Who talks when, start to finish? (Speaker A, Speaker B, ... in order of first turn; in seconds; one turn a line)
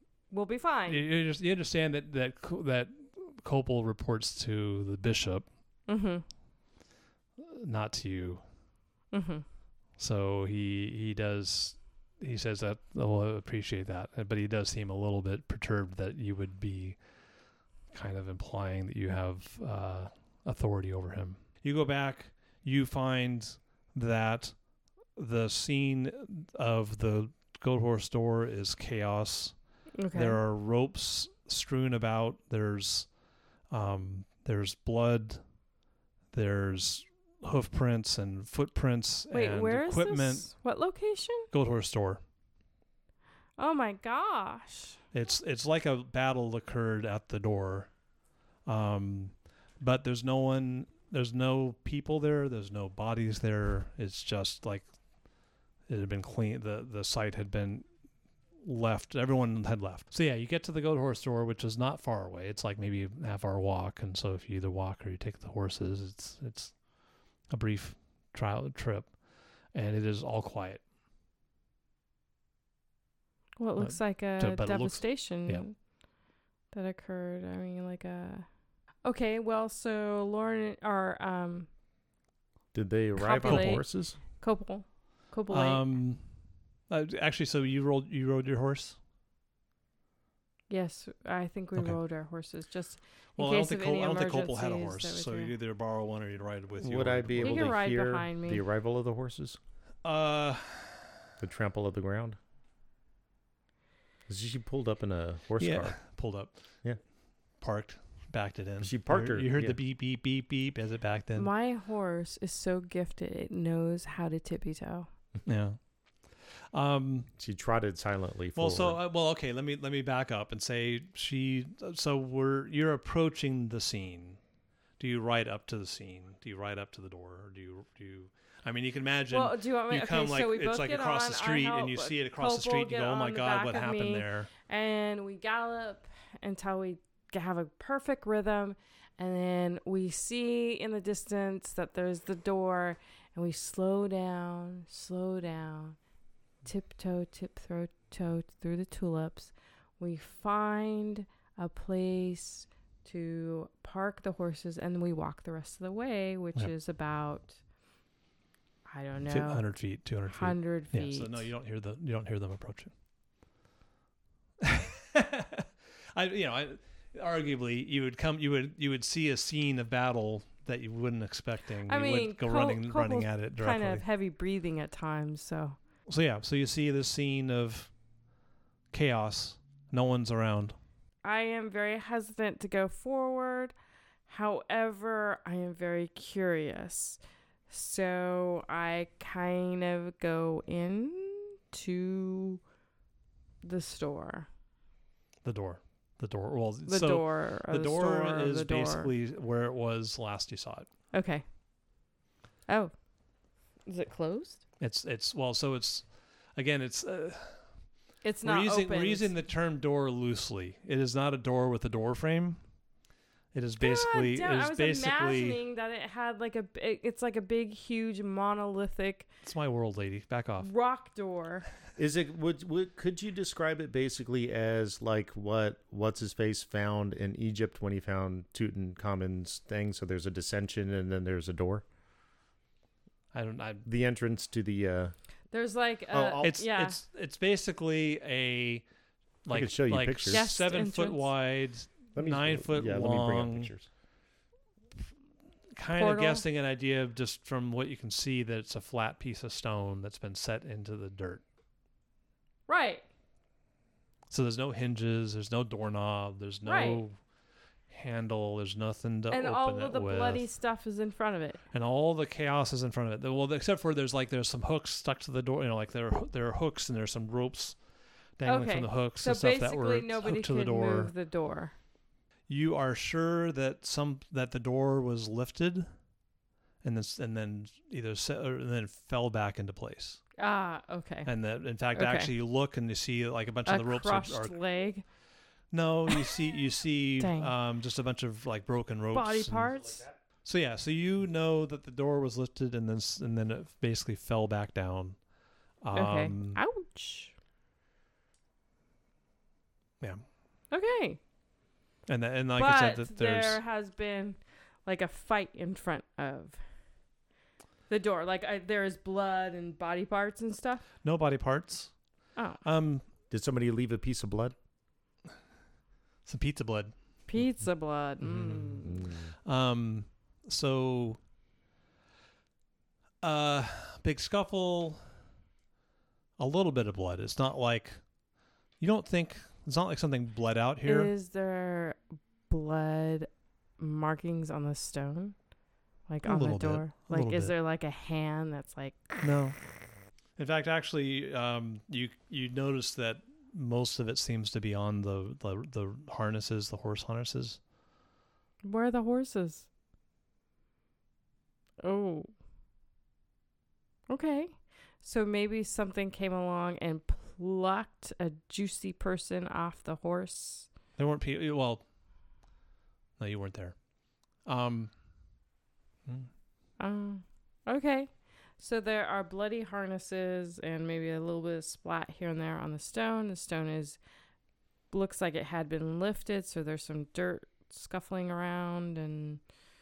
Speaker A: 0.3-1.0
Speaker B: 0.9-5.5
Speaker A: 5.9-6.2
Speaker B: 7.4-8.4
Speaker A: 9.1-9.4
Speaker B: 10.0-17.0
Speaker B: 17.9-33.1
Speaker A: 29.9-30.4
Speaker B: 33.7-35.4
Speaker B: 36.3-40.5
Speaker A: 39.3-41.5
Speaker B: 41.5-42.2
Speaker A: 43.6-45.0
Speaker B: 45.1-47.9
Speaker B: 48.6-54.9
Speaker B: 55.9-57.9
Speaker B: 58.6-66.9
Speaker B: 67.5-69.2
Speaker B: 69.7-70.8
Speaker A: 73.6-75.8
Speaker B: 73.8-75.6
Speaker A: 76.7-78.5
Speaker A: 79.0-81.7
Speaker C: 82.7-84.2
Speaker A: 83.2-85.8
Speaker B: 83.4-83.7
Speaker B: 85.5-86.3
Speaker B: 86.9-89.0
Speaker A: 90.7-95.5
Speaker B: 93.4-97.7
Speaker C: 96.8-99.6
Speaker A: 97.4-98.6
Speaker B: 100.0-101.2
Speaker C: 101.4-102.4
Speaker C: 104.3-106.0
Speaker B: 105.6-106.6
Speaker B: 107.6-111.5
Speaker C: 108.8-109.8
Speaker A: 111.3-115.1
Speaker B: 115.5-117.3
Speaker C: 117.4-119.0
Speaker B: 118.6-124.4
Speaker B: 125.0-134.5
Speaker A: 129.3-146.0
Speaker A: 146.7-157.6
Speaker A: 158.9-159.7
Speaker B: 159.3-162.9
Speaker A: 160.3-161.5
Speaker B: 164.6-174.0
Speaker A: 171.9-175.8
Speaker B: 176.1-177.9
Speaker B: 178.9-180.8
Speaker A: 181.2-183.7
Speaker A: 184.3-192.6
Speaker A: 193.6-194.5
Speaker B: 195.4-200.9
Speaker A: 196.9-199.1
Speaker A: 201.1-201.4
Speaker A: 202.7-202.9
Speaker A: 203.9-204.6
Speaker B: 204.8-207.7
Speaker A: 208.2-209.3
Speaker B: 208.4-212.6
Speaker B: 213.5-215.6
Speaker A: 213.8-219.3
Speaker B: 219.4-220.7
Speaker A: 220.6-221.7
Speaker C: 222.0-231.8
Speaker B: 233.3-233.9
Speaker C: 233.8-235.1
Speaker A: 235.5-237.0
Speaker C: 236.1-236.5
Speaker B: 236.4-238.8
Speaker B: 239.4-243.7
Speaker C: 239.5-240.5
Speaker A: 240.3-241.3
Speaker C: 242.2-243.9
Speaker B: 245.8-251.4
Speaker A: 245.9-246.4
Speaker A: 252.7-253.1
Speaker B: 254.3-257.2
Speaker A: 256.6-257.0
Speaker B: 257.9-260.4
Speaker A: 259.3-261.6
Speaker B: 261.7-267.8
Speaker B: 268.4-271.1
Speaker A: 268.4-271.7
Speaker B: 272.5-275.9
Speaker B: 276.8-280.2
Speaker A: 280.4-281.3
Speaker B: 281.3-284.6
Speaker A: 281.9-282.3
Speaker A: 283.7-285.0
Speaker B: 285.7-289.9
Speaker A: 286.1-286.5
Speaker A: 287.2-287.5
Speaker A: 289.1-290.1
Speaker B: 290.4-295.2
Speaker B: 295.8-296.6
Speaker A: 295.9-297.4
Speaker A: 300.7-301.2
Speaker B: 302.1-303.6
Speaker A: 302.6-306.6
Speaker A: 307.9-310.9
Speaker B: 311.0-312.0
Speaker B: 312.6-313.1
Speaker C: 313.3-314.6
Speaker B: 316.2-316.9
Speaker A: 317.3-319.0
Speaker B: 318.2-318.9
Speaker C: 318.7-319.3
Speaker B: 319.4-321.2
Speaker B: 323.2-325.0
Speaker B: 326.4-328.1
Speaker B: 328.8-331.1
Speaker A: 330.9-335.4
Speaker A: 336.1-339.2
Speaker B: 336.2-337.5
Speaker B: 339.2-339.6
Speaker B: 340.4-347.6
Speaker A: 348.6-349.7
Speaker A: 351.8-352.3
Speaker A: 354.1-360.7
Speaker B: 361.0-361.8
Speaker B: 363.2-363.8
Speaker B: 364.4-364.9
Speaker A: 366.8-374.0
Speaker A: 374.9-379.4